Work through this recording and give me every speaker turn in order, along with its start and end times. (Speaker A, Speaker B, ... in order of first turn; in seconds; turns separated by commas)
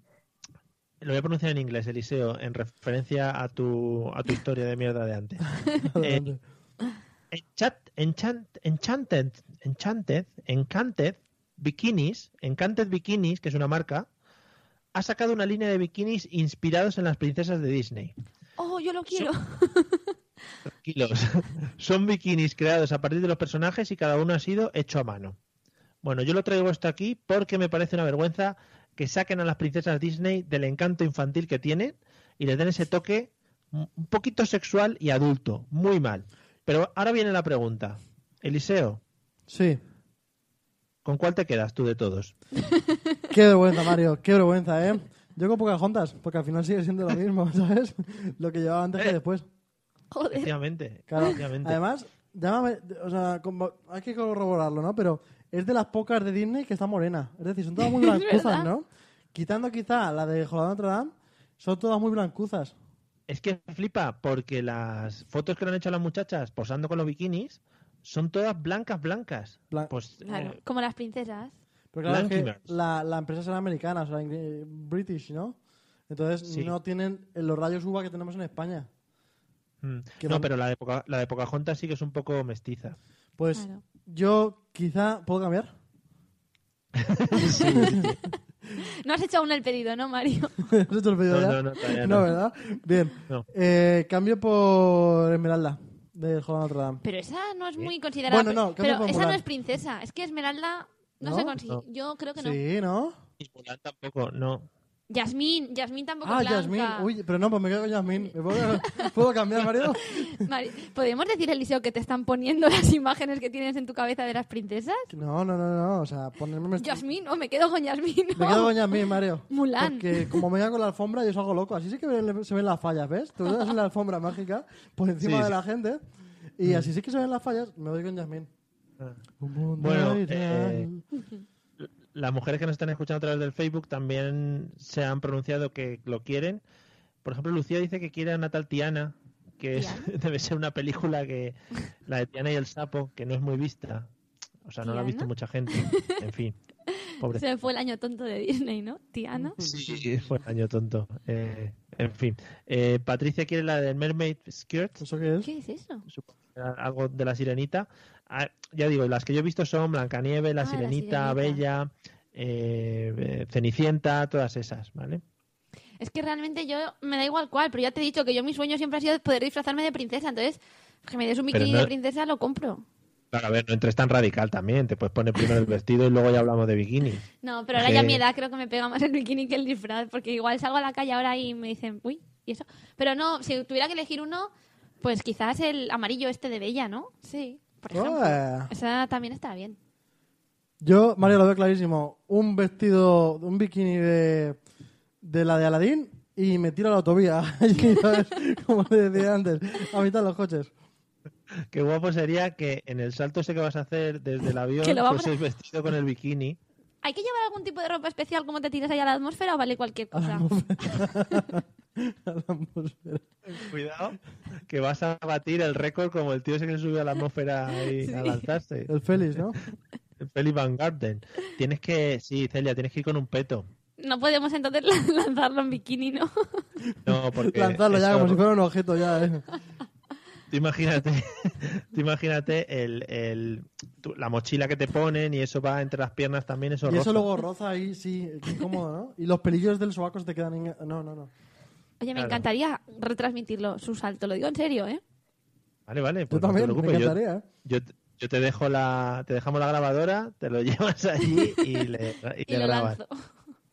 Speaker A: 1.0-6.2, Speaker B: 5.9-6.4, Speaker A: 7.3-14.1, Speaker A: 14.9-18.1, Speaker C: 18.6-20.1, Speaker A: 20.7-25.4, Speaker A: 26.0-39.0, Speaker B: 39.5-39.8, Speaker A: 41.0-42.3, Speaker B: 43.3-49.5, Speaker C: 50.1-50.5, Speaker A: 50.3-51.8, Speaker B: 51.1-62.8, Speaker C: 57.8-58.7, Speaker A: 63.3-70.6, Speaker C: 70.2-71.5, Speaker B: 71.9-75.6, Speaker A: 72.0-72.7, Speaker B: 76.1-78.9, Speaker A: 76.5-76.7, Speaker A: 79.8-83.0, Speaker B: 80.2-80.5, Speaker B: 83.4-85.7, Speaker C: 83.5-83.8, Speaker A: 87.0-88.1, Speaker C: 87.4-88.2, Speaker B: 87.7-88.1, Speaker C: 88.8-90.7, Speaker B: 90.7-97.0, Speaker A: 91.3-92.3, Speaker C: 97.0-102.6, Speaker B: 98.3-99.4, Speaker B: 101.2-101.5, Speaker B: 102.4-103.2, Speaker A: 103.4-104.7, Speaker C: 105.1-107.1, Speaker B: 106.2-110.3, Speaker C: 108.8-109.1, Speaker C: 110.2-115.1, Speaker B: 115.1-117.0, Speaker C: 116.8-119.0, Speaker B: 118.4-126.0, Speaker C: 119.5-120.4, Speaker A: 125.2-125.6, Speaker B: 126.6-128.5, Speaker A: 126.7-126.9, Speaker B: 129.4-131.0, Speaker A: 129.8-130.9, Speaker A: 131.8-136.6, Speaker A: 137.2-144.1, Speaker C: 139.8-140.1, Speaker A: 144.7-146.6, Speaker C: 144.8-145.3, Speaker C: 145.8-146.2, Speaker A: 147.2-147.5, Speaker C: 147.3-149.6, Speaker B: 149.4-150.0, Speaker A: 149.6-155.0, Speaker B: 155.0-155.5, Speaker C: 155.4-156.1, Speaker A: 156.1-165.2, Speaker C: 160.6-161.6, Speaker C: 166.0-172.8, Speaker A: 171.5-171.9, Speaker A: 173.3-178.2, Speaker C: 177.4-184.5, Speaker C: 185.0-189.8, Speaker B: 187.9-188.7, Speaker B: 190.8-194.6, Speaker B: 195.2-200.7, Speaker C: 197.8-198.2, Speaker A: 201.7-206.6, Speaker C: 204.8-205.3, Speaker C: 207.0-210.5, Speaker B: 210.1-213.7, Speaker A: 213.5-219.4, Speaker C: 218.0-218.5, Speaker B: 218.9-219.6, Speaker A: 220.2-223.7, Speaker C: 224.0-226.7, Speaker B: 226.9-229.5, Speaker A: 227.1-228.4, Speaker A: 230.5-237.3, Speaker B: 236.8-241.3, Speaker C: 242.0-245.0, Speaker A: 242.2-242.4, Speaker A: 245.9-253.0, Speaker B: 246.3-247.4, Speaker C: 252.5-253.2